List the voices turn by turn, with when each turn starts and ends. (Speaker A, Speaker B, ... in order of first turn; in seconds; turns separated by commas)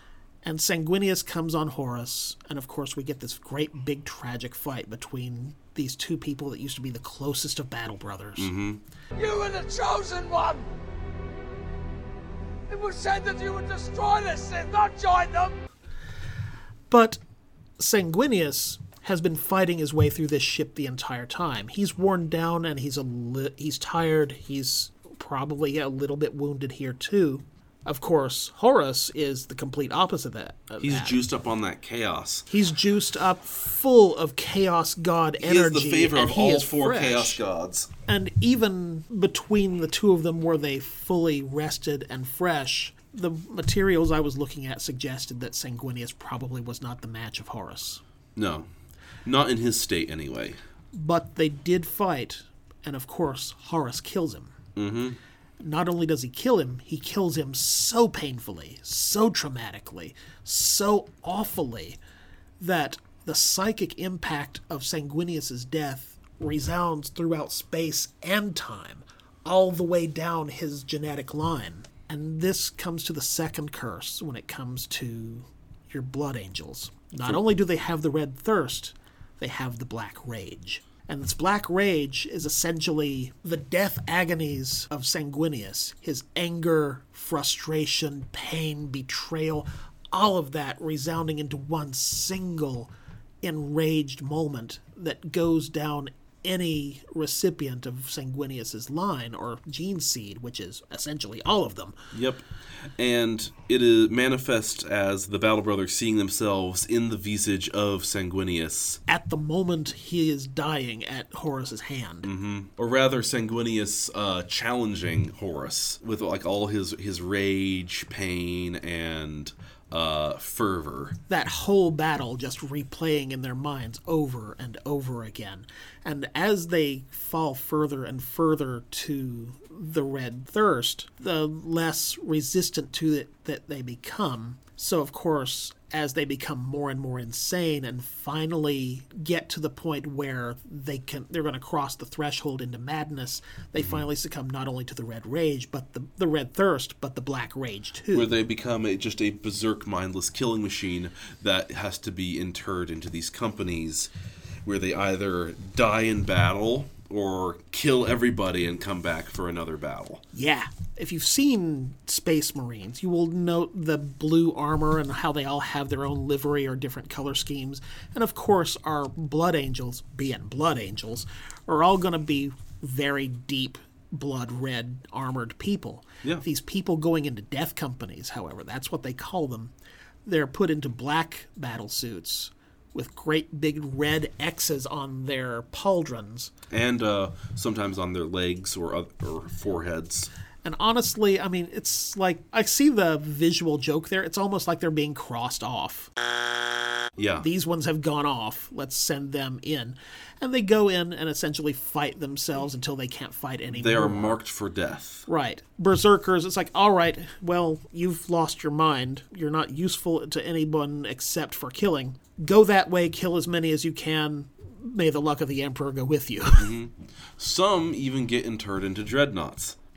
Speaker A: 0.4-8.5, Speaker B: 8.4-8.8, Speaker C: 9.2-10.7, Speaker C: 12.7-15.5, Speaker A: 16.9-17.2, Speaker A: 17.8-31.2, Speaker B: 30.8-32.5, Speaker A: 32.5-37.4, Speaker B: 35.4-37.9, Speaker A: 38.1-48.0, Speaker B: 48.4-48.7, Speaker B: 49.2-50.6, Speaker A: 50.9-54.5, Speaker B: 54.8-55.2, Speaker A: 55.6-62.0, Speaker A: 62.6-92.9, Speaker A: 93.4-102.0, Speaker B: 102.1-102.5, Speaker B: 103.0-109.0, Speaker A: 109.1-112.3, Speaker B: 112.2-121.2, Speaker A: 121.3-148.3, Speaker B: 143.8-144.0, Speaker B: 148.1-154.1, Speaker B: 154.6-160.2, Speaker A: 160.3-179.7, Speaker A: 180.2-186.5, Speaker B: 186.7-190.3, Speaker A: 190.6-196.1, Speaker B: 197.2-197.4, Speaker A: 197.4-204.4, Speaker B: 203.7-205.3, Speaker A: 205.3-216.7, Speaker B: 216.6-219.8